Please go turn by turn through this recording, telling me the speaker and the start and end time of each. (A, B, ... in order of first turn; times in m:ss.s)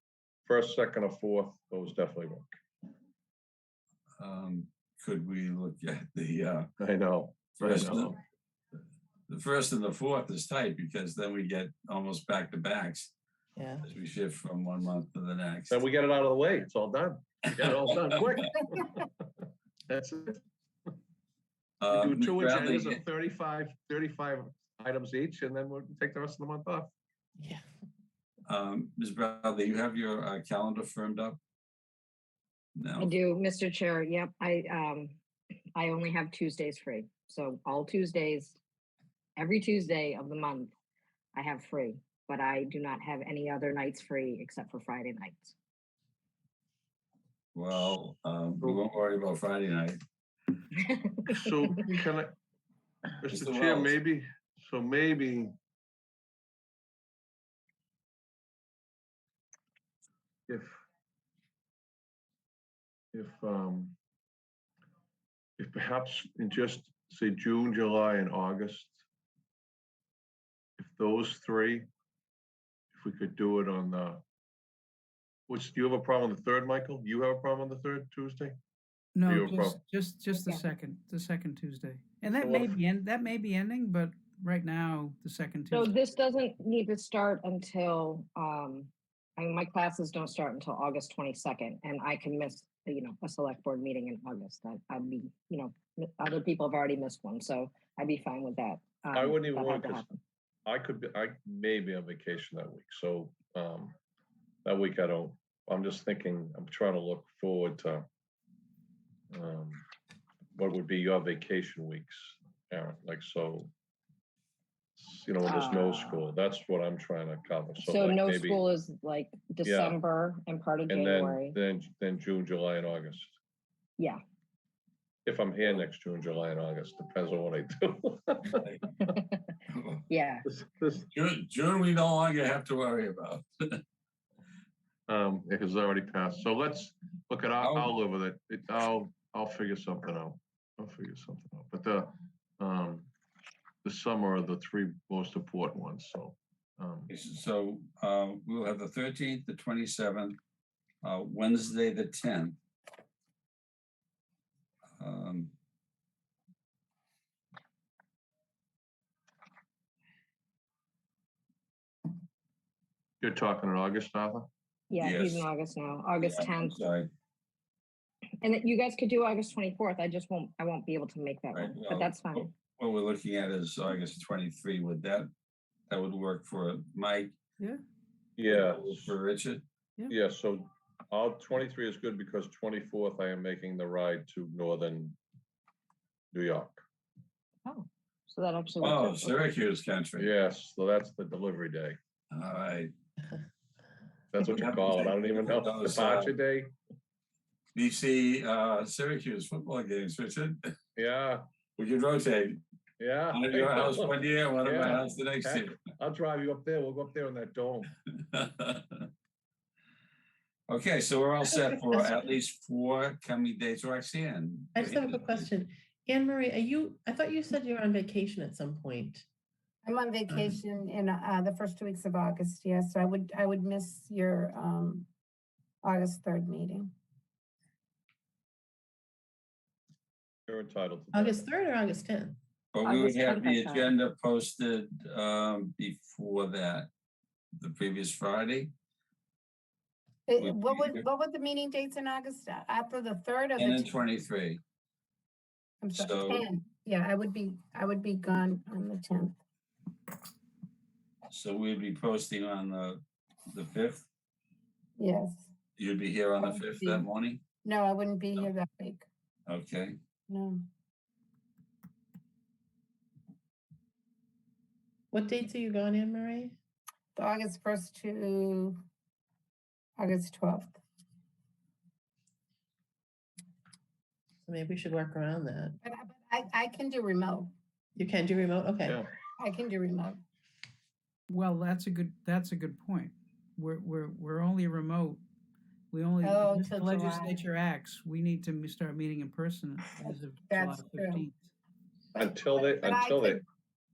0:00.5-0:02.5 A
0:04.2-0:06.7 B
0:06.8-0:08.1 A
0:07.6-0:08.1 B
0:09.3-0:13.1 B
0:13.6-0:13.9 C
0:13.8-0:15.8 B
0:15.7-0:19.1 A
0:19.9-0:20.4 A
0:21.8-0:23.0 B
0:21.9-0:26.9 A
0:28.5-0:31.4 B
0:32.8-0:33.1 B
0:33.0-0:35.2 D
0:35.8-0:38.6 D
0:39.4-0:40.7 D
0:41.3-0:45.6 D
0:47.5-0:50.0 B
0:50.8-0:51.2 D
0:51.3-0:52.3 A
0:53.2-0:55.5 A
0:53.3-0:54.0 B
1:00.5-1:00.8 A
1:03.1-1:04.0 A
1:05.6-1:09.0 A
1:10.8-1:11.9 A
1:12.9-1:14.2 A
1:15.5-1:18.6 A
1:19.2-1:26.0 E
1:19.2-1:19.8 A
1:20.4-1:20.6 D
1:22.3-1:22.8 A
1:25.7-1:40.2 D
1:39.1-1:40.1 A
1:40.7-1:44.0 A
1:44.6-1:48.1 A
1:49.3-1:49.8 A
1:50.6-1:53.7 A
1:55.0-1:58.6 A
1:55.4-1:56.3 D
1:57.8-2:01.6 D
1:59.6-2:00.0 A
2:00.9-2:03.4 A
2:05.3-2:09.1 A
2:08.6-2:09.0 B
2:09.1-2:09.6 D
2:09.7-2:10.1 B
2:10.1-2:10.4 D
2:10.4-2:11.1 A
2:11.1-2:13.8 B
2:15.1-2:23.1 A
2:17.6-2:17.9 B
2:23.8-2:27.1 A
2:27.1-2:30.4 B
2:31.0-2:32.6 B
2:35.0-2:35.5 B
2:43.2-2:44.5 A
2:44.9-2:46.8 D
2:45.0-2:45.5 B
2:46.2-2:47.1 B
2:48.4-2:52.5 D
2:51.5-2:55.3 B
2:55.9-2:57.4 B
2:58.4-2:59.2 A
2:58.5-2:59.6 B
3:00.1-3:05.2 A
3:06.3-3:06.8 A
3:07.6-3:09.4 D
3:08.8-3:10.3 B
3:10.2-3:12.0 A
3:12.3-3:12.9 B
3:14.3-3:16.7 A
3:14.4-3:16.4 B
3:17.8-3:20.7 B
3:21.0-3:21.4 A
3:21.8-3:22.6 B
3:23.0-3:27.9 A
3:23.3-3:25.8 B
3:28.1-3:29.1 B
3:30.7-3:35.5 B
3:31.4-3:32.3 C
3:34.8-3:39.2 C
3:39.8-3:45.1 F
3:45.8-3:46.9 F
3:50.5-3:51.5 A
3:51.1-3:52.4 C
3:52.7-3:56.9 B
3:52.8-3:53.9 D
3:57.6-3:58.7 B
4:00.3-4:04.0 F
4:00.4-4:01.1 B
4:03.6-4:04.6 B
4:05.8-4:09.4 F
4:05.9-4:06.4 B
4:11.3-4:14.1 B
4:15.0-4:15.5 F
4:15.8-4:17.4 B
4:16.4-4:17.1 F
4:17.6-4:19.1 F
4:19.5-4:20.0 B
4:20.3-4:20.6 F
4:25.1-4:26.6 C
4:27.2-4:28.8 F
4:30.0-4:30.8 F
4:34.4-4:35.8 C
4:35.8-4:37.5 F
4:38.0-4:39.0 C
4:39.4-4:40.2 F
4:41.3-4:45.2 E
4:45.9-4:51.4 E
4:46.2-4:47.4 F
4:50.0-4:51.3 F
4:52.2-4:53.4 A
4:52.2-4:53.4 F